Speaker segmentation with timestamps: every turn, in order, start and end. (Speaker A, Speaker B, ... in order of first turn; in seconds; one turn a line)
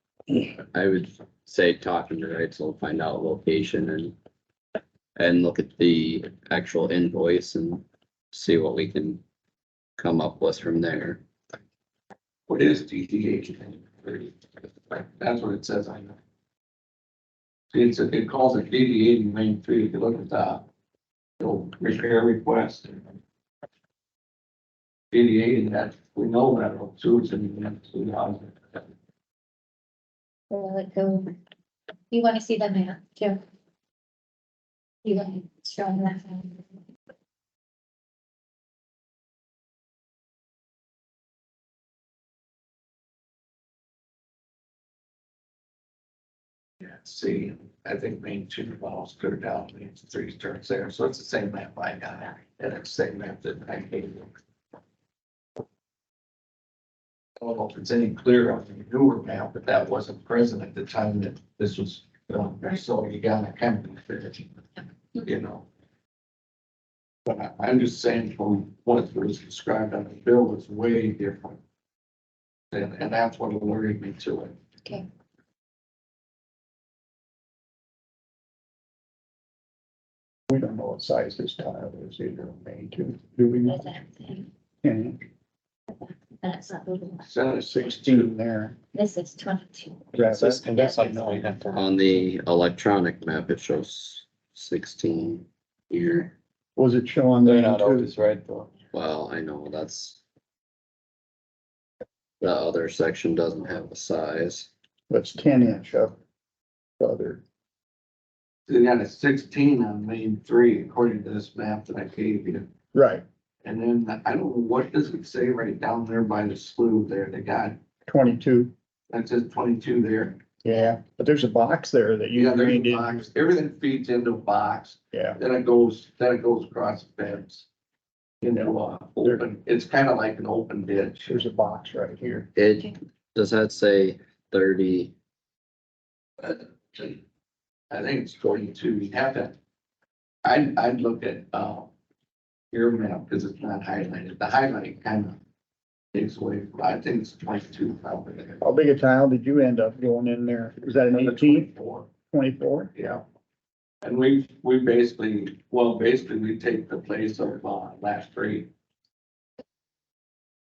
Speaker A: 0.3-4.1
Speaker A: 5.2-9.2
Speaker A: 10.0-11.2
Speaker B: 12.5-16.2
Speaker B: 17.7-20.7
Speaker B: 21.4-23.1
Speaker B: 25.1-28.9
Speaker C: 30.5-31.3
Speaker C: 32.1-33.4
Speaker C: 35.0-36.8
Speaker B: 46.8-54.4
Speaker B: 57.4-64.5
Speaker B: 65.2-65.7
Speaker B: 67.2-71.6
Speaker B: 72.7-74.5
Speaker D: 80.5-83.9
Speaker C: 83.7-84.5
Speaker D: 84.8-85.2
Speaker C: 85.9-87.3
Speaker B: 87.2-88.3
Speaker D: 87.6-88.8
Speaker C: 88.9-91.8
Speaker E: 90.1-91.8
Speaker D: 90.1-91.4
Speaker A: 91.7-96.3
Speaker D: 96.8-98.1
Speaker E: 97.4-98.7
Speaker A: 98.9-100.2
Speaker A: 102.4-104.7
Speaker D: 105.1-106.2
Speaker D: 107.0-107.4
Speaker B: 108.7-112.7
Speaker D: 112.9-113.2
Speaker B: 113.6-117.8
Speaker D: 118.1-118.7
Speaker B: 119.1-120.4
Speaker D: 120.6-123.3
Speaker B: 122.3-127.7
Speaker D: 125.1-125.4
Speaker B: 128.4-131.4
Speaker D: 128.5-129.4
Speaker D: 131.3-132.5
Speaker A: 132.5-135.1
Speaker B: 136.4-137.2
Speaker B: 137.9-139.5
Speaker B: 140.4-141.9
Speaker B: 142.7-145.4
Speaker B: 146.1-148.6
Speaker D: 148.6-151.7
Speaker B: 151.2-152.1
Speaker D: 152.3-152.9
Speaker B: 152.9-153.2
Speaker B: 154.0-158.7